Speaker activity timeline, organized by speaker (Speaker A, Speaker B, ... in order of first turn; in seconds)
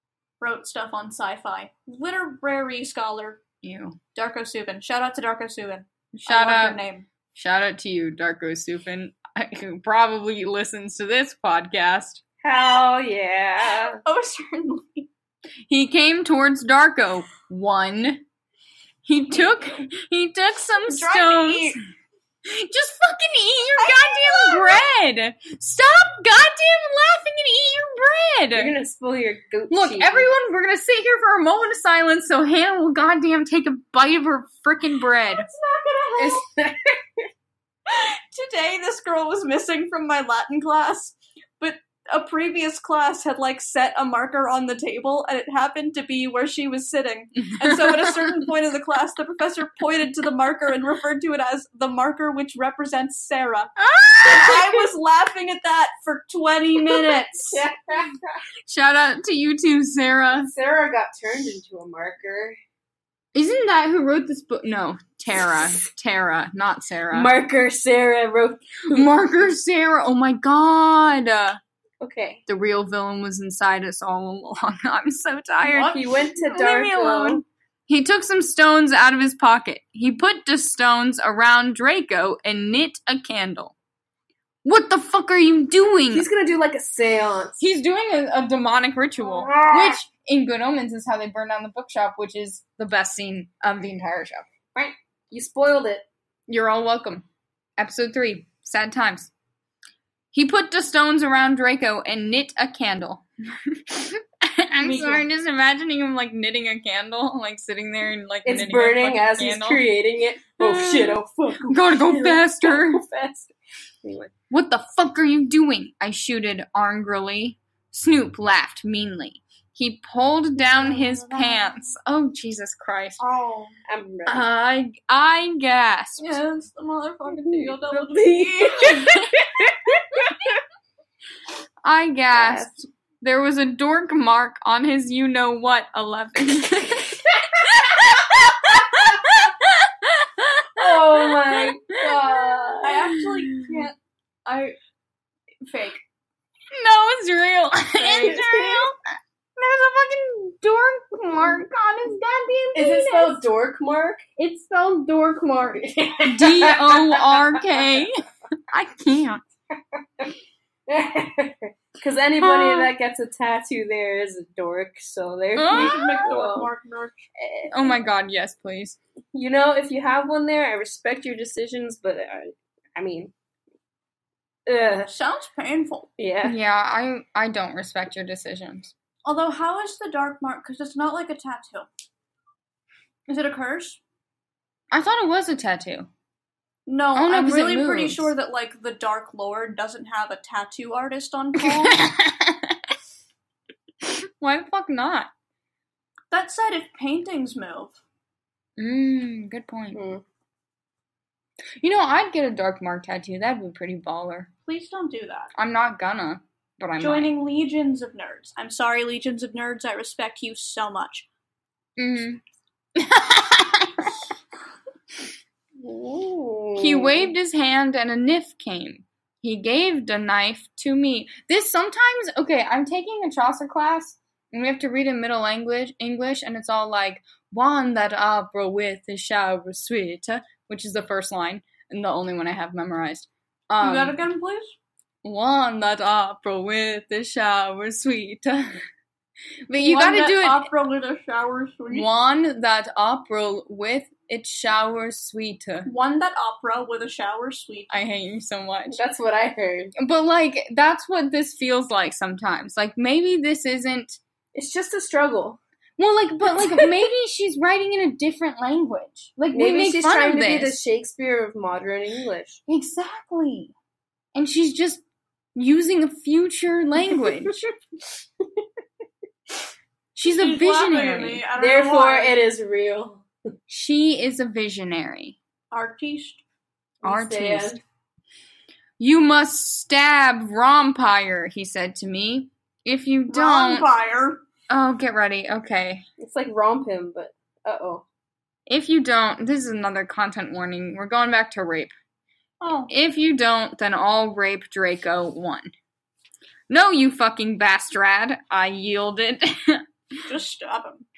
Speaker A: 0.4-3.4, 4.1-7.0, 13.6-15.1, 20.9-21.8, 23.8-24.9, 35.3-36.4, 37.9-57.6, 120.6-121.9, 123.2-123.7, 126.2-129.1, 142.8-143.9, 144.4-144.8, 145.6-146.0, 148.0-148.4, 165.7-167.3, 175.1-176.1, 179.2-181.9, 183.3-184.0, 186.8-192.0, 196.3-198.0, 204.7-205.5, 207.0-211.3, 233.8-234.8, 239.8-242.1, 245.8-248.0, 270.2-272.4, 275.7-276.4, 283.3-284.4, 292.6-292.9, 300.2-301.0
Speaker B: 3.6-4.0, 6.1-6.8, 7.3-12.2, 15.7-18.2, 19.0-21.8, 22.4-28.7, 29.7-35.5, 47.6-48.3, 53.8-54.8, 58.7-60.5, 63.3-67.3, 68.9-71.6, 72.5-76.0, 76.5-83.7, 84.6-86.2, 87.6-94.5, 96.5-97.2, 97.8-99.3, 100.3-109.8, 110.6-113.0, 114.5-123.2, 124.2-126.4, 131.8-143.8, 146.7-149.0, 149.6-153.4, 156.2-158.2, 158.7-159.4, 162.4-162.9, 165.6-166.3, 167.7-169.0, 176.4-178.9, 184.9-186.1, 187.1-188.3, 191.6-192.8, 194.0-195.3, 198.8-200.0, 201.8-204.5, 205.5-207.3, 212.0-212.4, 212.9-214.1, 216.8-234.2, 235.2-238.8, 239.7-240.7, 241.9-245.9, 247.9-249.0, 250.0-254.2, 256.0-260.8, 262.7-263.7, 264.3-265.0, 265.5-267.5, 270.1-271.4, 273.7-275.4, 277.0-277.8, 279.0-283.9, 284.7-286.0, 288.7-291.9, 292.9-295.7, 296.7-299.8
Speaker C: 12.4-14.0, 28.5-30.3, 36.2-37.2, 57.5-58.4, 60.4-62.6, 67.1-69.1, 72.0-72.4, 75.7-77.4, 86.1-87.6, 89.2-90.0, 94.7-96.0, 104.9-105.1, 108.4-113.5, 114.0-114.3, 123.9-124.4, 127.3-130.6, 132.3-132.7, 138.7-139.4, 140.8-143.0, 148.2-148.9, 152.7-157.7, 160.9-166.7, 167.4-167.9, 169.3-173.3, 174.7-175.1, 176.2-176.6, 199.9-200.2, 215.8-217.3, 248.9-249.9, 254.5-255.6, 256.6-256.9, 259.5-262.6, 271.6-273.3, 277.0-277.8, 286.2-288.0